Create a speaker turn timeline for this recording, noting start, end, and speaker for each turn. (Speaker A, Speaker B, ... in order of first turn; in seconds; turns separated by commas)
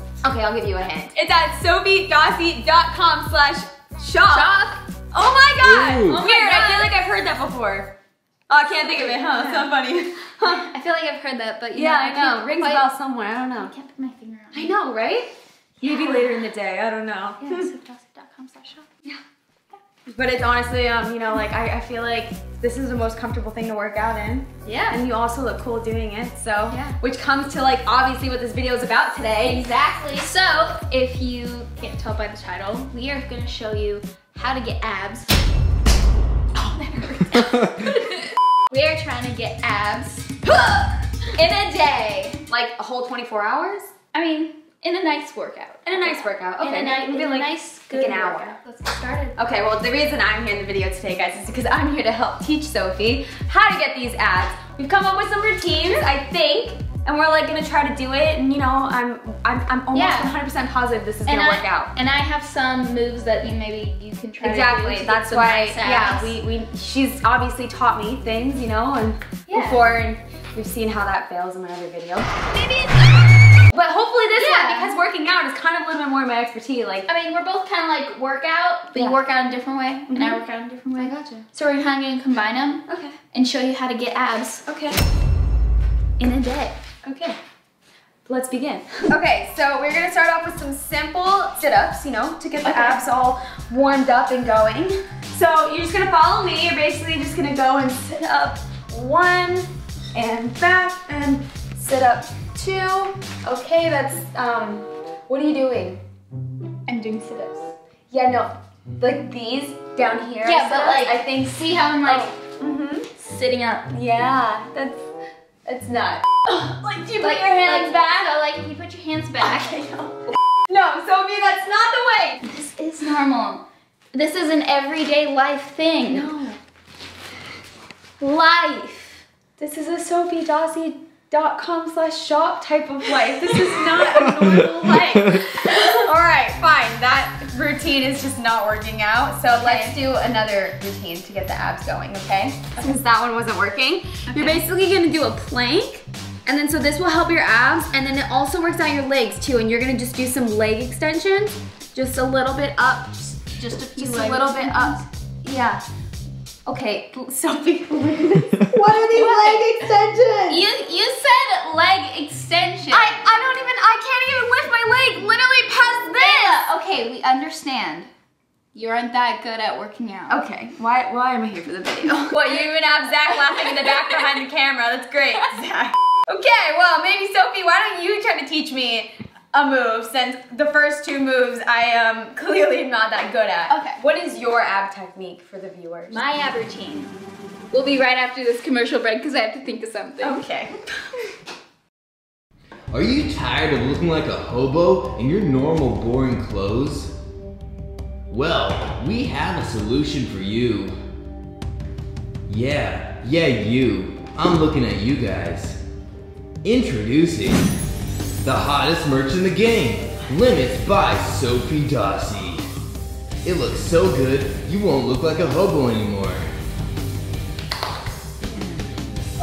Speaker A: 0.2-7.9, Speaker B: 4.3-4.8, Speaker C: 5.7-6.2, Speaker B: 6.0-6.9, Speaker A: 8.5-10.7, Speaker B: 8.8-9.7, Speaker B: 10.4-12.9, Speaker A: 11.8-13.7, Speaker B: 13.6-14.8, Speaker A: 14.5-17.7, Speaker B: 15.8-16.4, Speaker B: 17.4-19.1, Speaker A: 20.1-29.6, Speaker B: 24.6-25.0, Speaker B: 26.7-27.0, Speaker B: 29.4-35.4, Speaker B: 36.5-40.4, Speaker A: 40.5-43.9, Speaker B: 44.1-49.5, Speaker A: 45.9-48.6, Speaker A: 49.4-61.9, Speaker B: 59.9-60.3, Speaker B: 61.3-66.3, Speaker A: 64.4-72.3, Speaker B: 69.5-69.9, Speaker B: 72.5-73.1, Speaker A: 73.7-77.1, Speaker B: 74.4-75.0, Speaker B: 77.1-84.6, Speaker A: 80.1-80.4, Speaker A: 81.0-81.5, Speaker A: 82.9-83.2, Speaker A: 84.7-85.0, Speaker B: 86.2-86.8, Speaker A: 87.0-87.4, Speaker A: 88.3-106.0, Speaker B: 92.6-93.0, Speaker B: 106.9-107.6, Speaker A: 108.1-113.1, Speaker B: 110.4-112.3, Speaker B: 113.2-113.9, Speaker A: 113.9-115.0, Speaker A: 115.7-118.3, Speaker B: 116.5-119.8, Speaker A: 119.4-122.4, Speaker B: 122.4-126.3, Speaker A: 126.0-126.6, Speaker B: 128.2-129.2, Speaker A: 129.6-155.8, Speaker B: 139.6-140.0, Speaker B: 144.3-144.7, Speaker B: 153.6-155.0, Speaker A: 156.7-160.6, Speaker B: 159.0-159.9, Speaker B: 160.5-163.1, Speaker A: 162.9-166.7, Speaker B: 166.2-168.1, Speaker B: 168.7-170.4, Speaker A: 170.3-186.2, Speaker B: 172.3-172.6, Speaker B: 173.6-174.0, Speaker B: 183.7-184.0, Speaker B: 186.1-187.1, Speaker B: 187.7-190.4, Speaker A: 190.2-191.3, Speaker C: 192.9-197.1, Speaker C: 198.3-201.0, Speaker C: 202.5-205.8, Speaker C: 206.6-207.7, Speaker C: 208.4-212.7, Speaker C: 213.4-216.5